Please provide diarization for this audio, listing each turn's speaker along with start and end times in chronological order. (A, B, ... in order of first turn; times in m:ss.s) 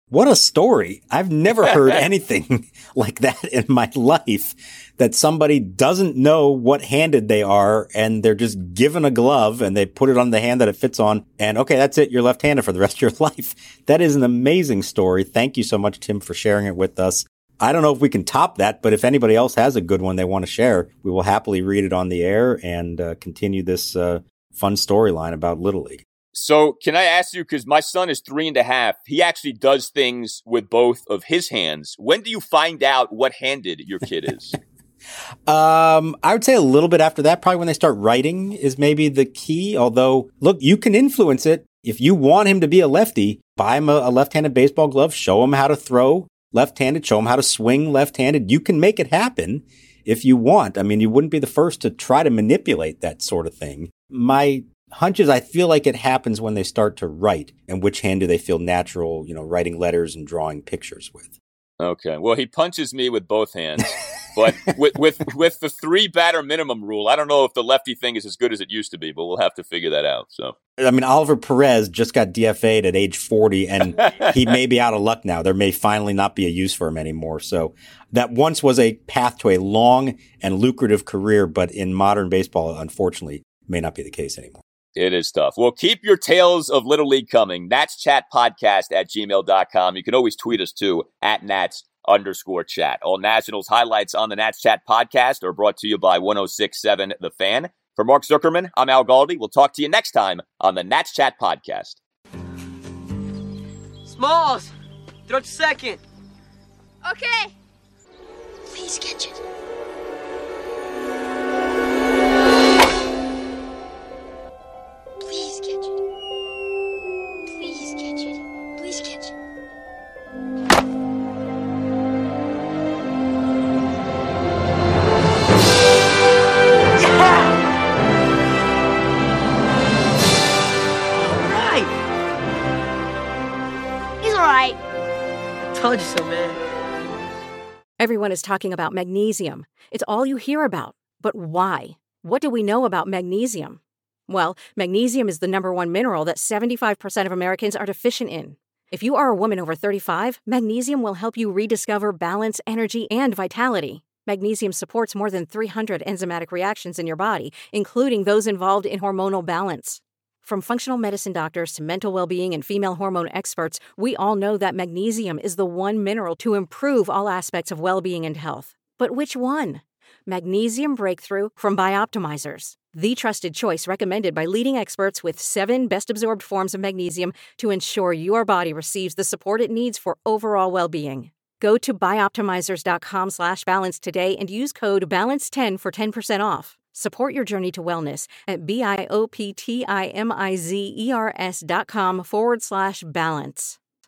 0:00.1-0:26.0 A
0:26.3-0:34.6 B
0:35.5-1:01.4 A
1:01.8-1:10.6 B
1:10.8-1:24.6 A
1:14.0-1:14.5 B
1:25.0-1:42.0 B
1:44.0-1:44.7 C
1:45.3-1:46.0 C
1:47.0-1:47.5 D
1:48.7-1:49.4 D
1:55.2-1:56.0 D
1:57.5-1:59.3 D
2:07.0-2:07.6 C
2:11.1-2:11.9 C
2:14.2-2:14.8 C
2:15.7-2:16.6 C
2:18.0-3:13.8 E